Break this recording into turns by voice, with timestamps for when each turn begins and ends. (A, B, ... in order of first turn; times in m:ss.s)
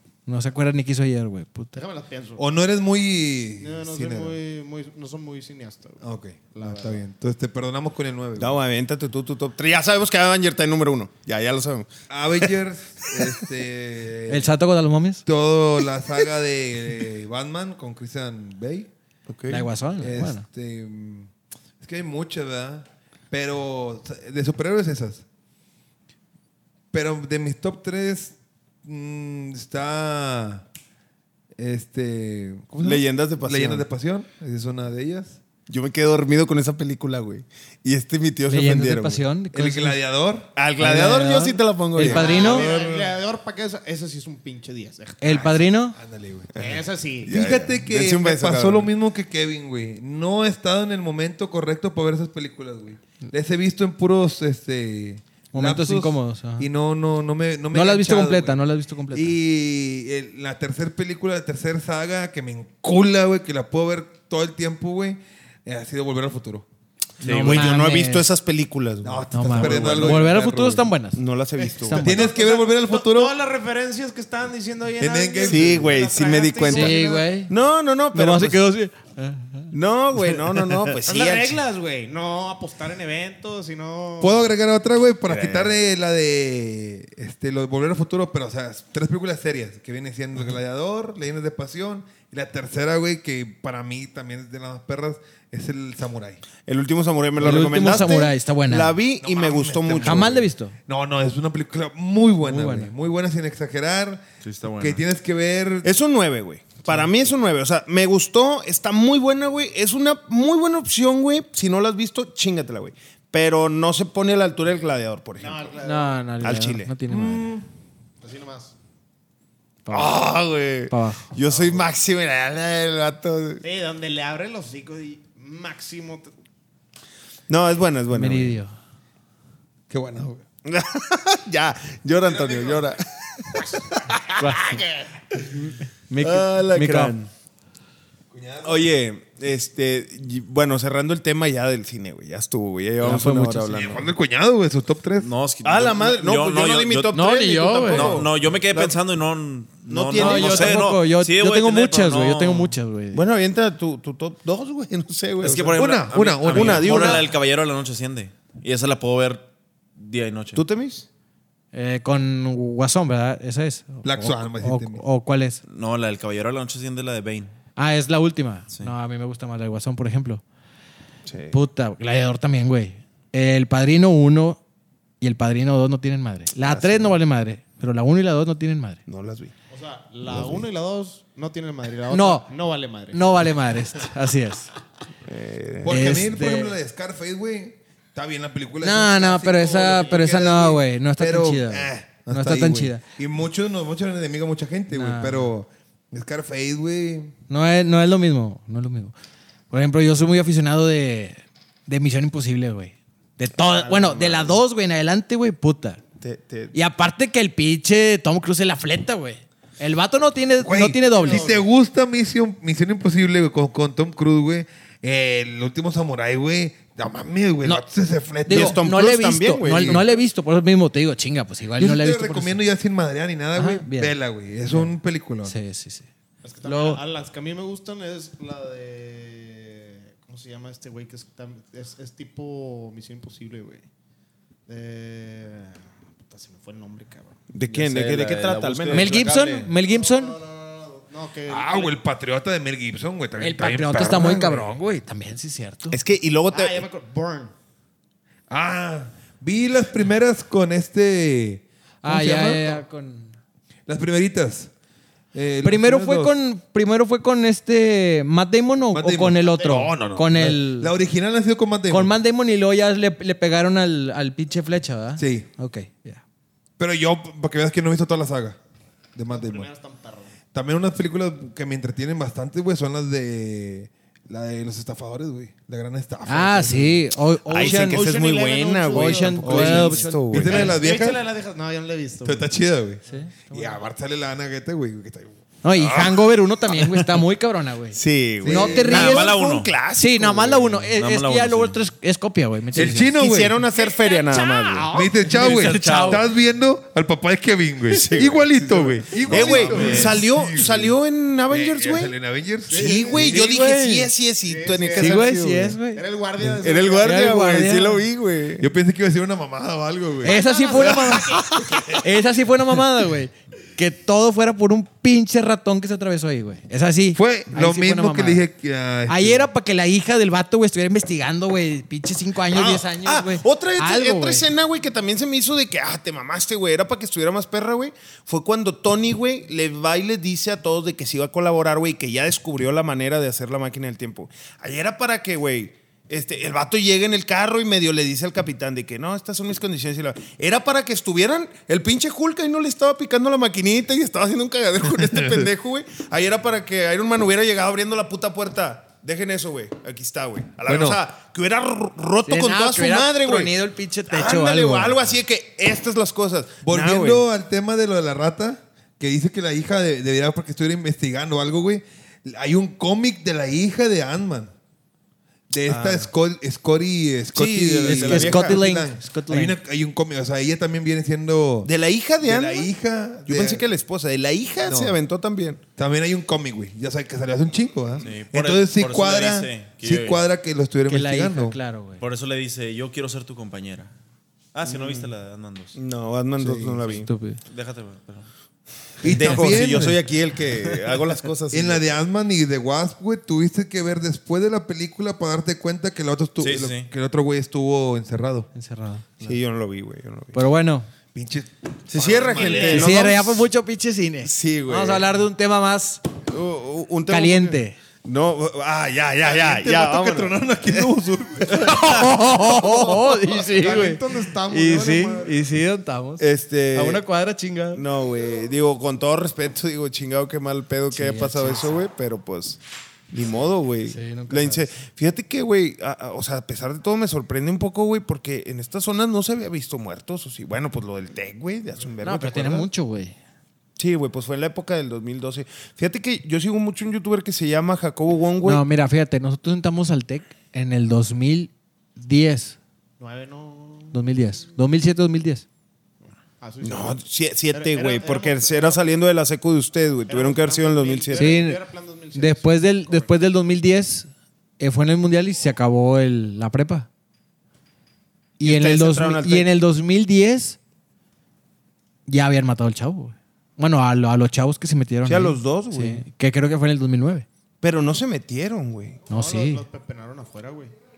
0:00.3-0:01.8 A
0:01.7-0:02.4 B
0:02.4-0:04.4 C
0:03.6-0:06.0 B
0:06.0-0:08.5 C
0:06.6-0:07.0 B
0:08.4-0:11.9 D
0:12.1-0:14.5 C
0:14.3-0:15.2 A
0:15.2-0:18.9 C
0:19.3-0:19.7 D
0:19.5-0:20.4 A
0:20.0-0:21.3 C
0:21.8-0:25.2 C
0:26.9-0:30.6 C
0:31.6-0:35.4 C
0:32.8-0:33.9 D
0:35.7-0:39.2 D
0:38.5-0:40.0 A
0:39.5-0:40.5 C
0:40.6-0:42.8 D
0:40.8-0:42.7 A
0:42.0-0:45.7 B
0:42.0-0:43.1 C
0:45.2-0:46.0 A
0:45.3-0:46.6 C
0:46.6-0:48.9 D
0:46.6-0:47.4 B
0:47.3-0:58.6 C
0:55.5-0:56.7 A
0:57.7-0:59.4 A
0:59.1-1:06.6 C
1:07.2-1:08.3 A
1:07.2-1:07.7 E
1:07.4-1:10.5 D
1:09.0-1:10.9 C
1:09.3-1:12.3 A
1:11.1-1:12.1 D
1:11.8-1:17.2 B
1:12.0-1:13.3 C
1:15.0-1:16.0 C
1:15.4-1:18.7 D
1:16.7-1:17.5 A
1:18.1-1:20.9 A
1:19.7-1:21.6 D
1:21.0-1:24.4 B
1:24.2-1:36.4 C
1:25.3-1:25.7 D
1:36.7-1:40.4 D
1:37.4-1:39.0 A
1:39.2-1:45.9 C
1:40.0-1:40.7 A
1:42.4-1:42.9 A
1:44.4-1:45.0 E
1:45.8-1:55.8 D
1:55.4-1:56.2 B
1:55.8-1:57.5 A
1:56.4-1:56.9 D
1:57.1-1:57.6 C
1:58.2-1:58.7 B
1:59.8-2:00.2 A
1:59.9-2:03.6 D
2:00.9-2:01.3 A
2:03.6-2:06.3 B
2:07.5-2:08.6 D
2:08.1-2:08.7 A
2:09.9-2:10.4 C
2:10.6-2:13.0 D
2:12.3-2:12.8 C
2:13.6-2:14.8 D
2:14.4-2:14.8 A
2:16.1-2:17.2 A
2:16.2-2:17.3 D
2:18.3-2:18.9 C
2:18.6-2:24.1 D
2:23.0-2:24.0 A
2:23.7-2:25.3 C
2:25.2-2:27.2 E
2:25.6-2:29.0 D
2:27.1-2:28.1 A
2:27.9-2:32.7 E
2:29.9-2:30.8 D
2:30.2-2:33.2 A
2:33.1-2:35.8 D
2:35.4-2:39.4 E
2:35.7-2:37.3 C
2:36.4-2:37.3 D
2:40.0-2:40.6 E
2:40.5-2:41.1 D
2:41.7-2:45.6 A
2:44.0-2:45.0 C
2:45.7-2:47.5 E
2:47.8-2:50.4 A
2:51.3-2:51.6 D
2:51.5-2:54.6 A
2:55.2-2:59.0 A
2:56.6-2:57.2 D
2:59.1-2:59.5 D
2:59.7-3:03.6 B
3:00.3-3:00.6 D
3:02.1-3:02.5 A
3:03.1-3:04.7 A
3:05.2-3:06.2 D
3:05.8-3:17.3 C
3:05.9-3:06.7 A
3:08.8-3:13.0 A
3:14.9-3:15.5 A
3:17.5-3:19.1 A
3:19.7-3:26.0 A
3:23.6-3:24.6 D
3:26.2-3:26.7 D
3:26.7-3:31.6 A
3:30.6-3:38.8 C
3:31.1-3:31.6 B
3:38.4-3:42.6 A
3:38.5-3:40.1 D
3:41.8-3:45.5 C
3:43.6-3:44.1 A
3:44.7-3:46.1 A
3:46.4-3:53.8 B
3:46.6-3:47.0 A
3:54.7-3:57.4 B
3:57.5-3:59.1 D
3:57.7-3:59.7 E
3:58.9-4:00.4 A
4:00.0-4:01.9 B
4:01.5-4:04.7 C
4:03.4-4:06.0 A
4:05.9-4:06.8 D
4:06.5-4:07.5 B
4:08.5-4:12.8 C
4:12.0-4:13.3 A
4:13.9-4:14.7 C
4:15.3-4:16.3 C
4:15.6-4:20.9 A
4:18.9-4:22.1 C
4:19.4-4:19.8 B
4:21.9-4:26.2 A
4:25.2-4:25.5 C
4:26.8-4:28.6 C
4:29.1-4:29.7 C
4:29.3-4:30.4 B
4:30.5-4:37.0 C
4:36.3-4:38.2 A
4:37.5-4:40.8 D
4:37.5-4:39.7 B
4:38.9-4:40.7 A
4:39.4-4:41.2 C
4:40.4-4:42.5 B
4:42.2-4:46.2 C
4:43.1-4:43.8 A
4:45.6-4:49.4 A
4:47.9-4:50.9 D
4:48.4-4:49.1 C
4:48.9-4:49.7 E
4:50.0-4:53.2 A
4:51.0-4:51.8 E
4:52.7-4:53.6 C
4:52.7-4:54.9 D
4:53.7-4:55.3 B
4:54.9-5:01.0 C
4:55.3-4:56.2 E
4:55.3-4:56.2 A
4:57.9-5:02.1 D
4:59.2-5:00.2 E
4:59.4-5:00.1 B
5:01.5-5:03.5 C
5:02.7-5:03.2 B
5:02.7-5:05.8 D
5:03.1-5:04.1 A
5:04.4-5:05.3 B
5:05.0-5:06.0 A
5:05.9-5:07.2 B
5:06.6-5:08.7 D
5:07.0-5:08.0 A
5:08.6-5:10.4 C
5:10.2-5:12.0 B
5:10.2-5:18.4 A
5:17.1-5:19.5 C
5:19.1-5:24.5 A
5:22.5-5:53.5 D
5:50.7-5:51.0 C
5:52.2-5:55.0 A
5:54.1-5:57.2 D
5:56.6-6:04.5 C
6:05.5-6:11.7 C
6:05.7-6:06.1 D
6:07.3-6:08.6 D
6:07.8-6:09.6 A
6:11.6-6:12.7 D
6:12.2-6:13.6 C
6:13.2-6:15.6 D
6:14.6-6:15.0 C
6:15.8-6:21.6 C
6:18.0-6:20.3 E
6:20.9-6:22.0 A
6:22.0-6:23.9 E
6:24.5-6:25.8 E
6:24.7-6:25.1 D
6:25.7-6:27.1 D
6:26.4-6:26.8 C
6:26.9-6:27.4 A
6:27.4-6:28.3 E
6:29.0-6:30.0 C
6:29.0-6:31.8 D
6:31.5-6:38.5 C
6:36.4-6:36.9 E
6:38.5-6:39.4 A
6:39.2-6:40.4 D
6:40.3-6:40.9 A
6:41.1-6:43.1 C
6:41.9-6:43.5 D
6:42.3-6:42.8 B
6:42.7-6:46.0 A
6:44.2-6:45.1 D
6:46.3-6:50.9 D
6:47.1-6:47.8 A
6:49.2-6:52.0 C
6:51.5-6:51.9 D
6:51.5-6:57.8 A
6:53.2-6:55.4 B
6:56.2-6:57.0 D
6:57.7-7:02.6 D
7:00.9-7:01.8 A
7:03.1-7:12.7 D
7:03.9-7:04.7 A
7:12.0-7:13.1 A
7:13.8-7:18.6 D
7:18.4-7:22.6 A
7:23.0-7:24.0 B
7:23.9-7:25.4 A
7:26.4-7:28.8 B
7:26.6-7:31.4 D
7:30.1-7:33.1 B
7:31.1-7:31.6 A
7:32.1-7:36.9 A
7:38.4-7:40.6 A
7:38.4-7:39.5 D
7:42.1-7:47.3 A
7:45.0-7:46.0 D
7:47.6-7:49.0 D
7:49.1-7:49.6 A
7:49.1-7:50.7 B